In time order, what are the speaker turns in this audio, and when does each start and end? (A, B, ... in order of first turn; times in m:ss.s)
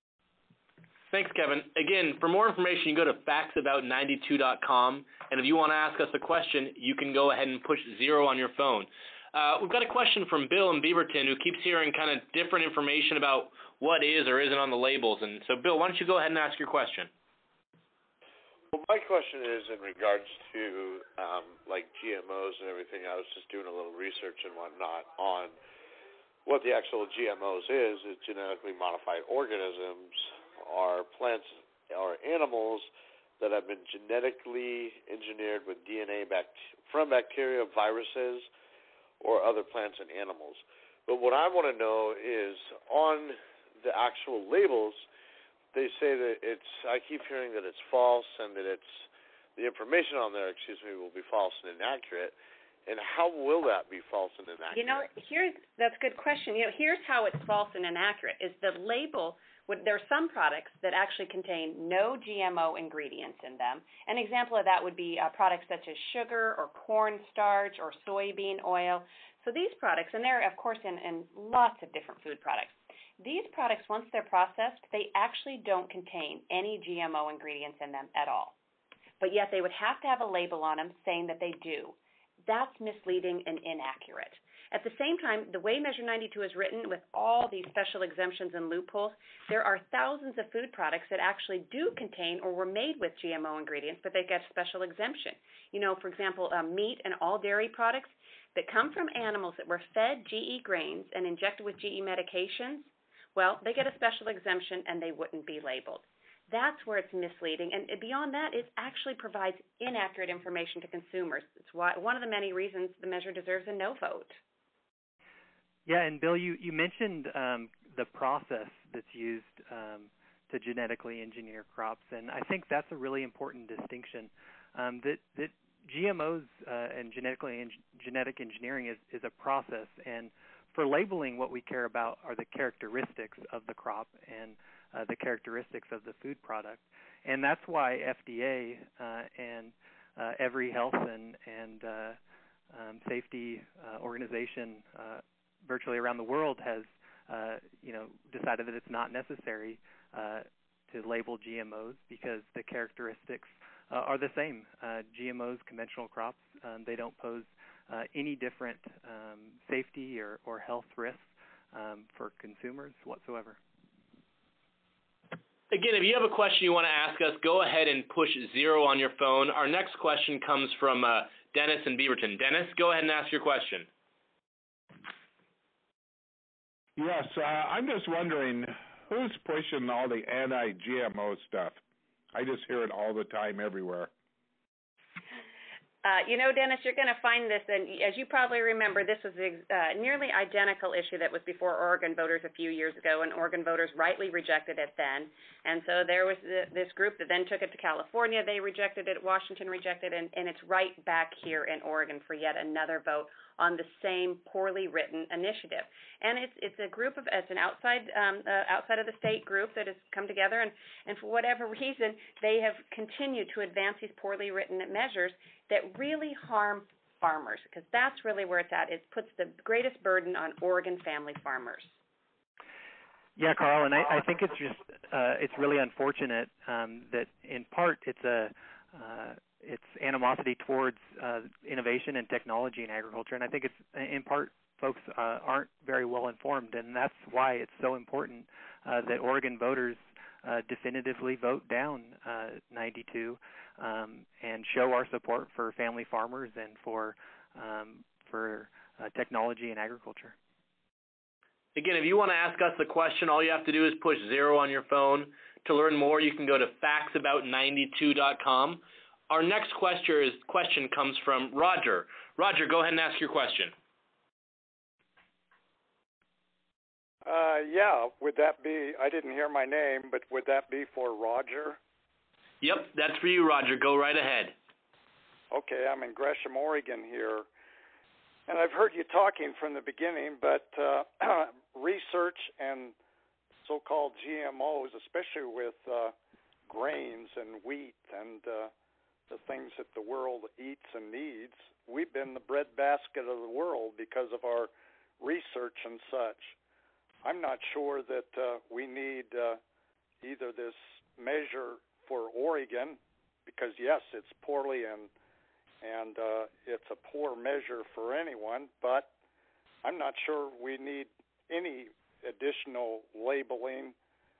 0:01.1-0:17.1 A
0:18.7-0:25.6 B
0:26.4-0:32.9 B
0:33.4-0:38.5 B
0:39.2-0:45.0 B
0:45.7-0:55.1 B
0:54.7-1:18.6 C
1:19.2-1:54.4 C
1:55.9-2:22.2 D
2:22.7-2:43.6 D
2:45.7-2:53.9 A
2:57.0-3:01.8 E
3:02.3-3:04.1 E
3:06.0-3:42.0 C
3:43.4-4:10.4 D
4:11.8-4:23.7 A
4:27.2-4:31.8 F
4:32.6-4:34.5 A
4:35.5-4:37.5 F
4:38.5-4:42.9 F
4:43.6-4:46.1 F
4:46.7-4:48.7 F
4:49.3-4:54.7 F
4:55.2-4:56.5 F
4:57.2-4:59.6 F
5:00.2-5:05.1 F
5:05.8-5:09.1 F
5:09.8-5:14.0 F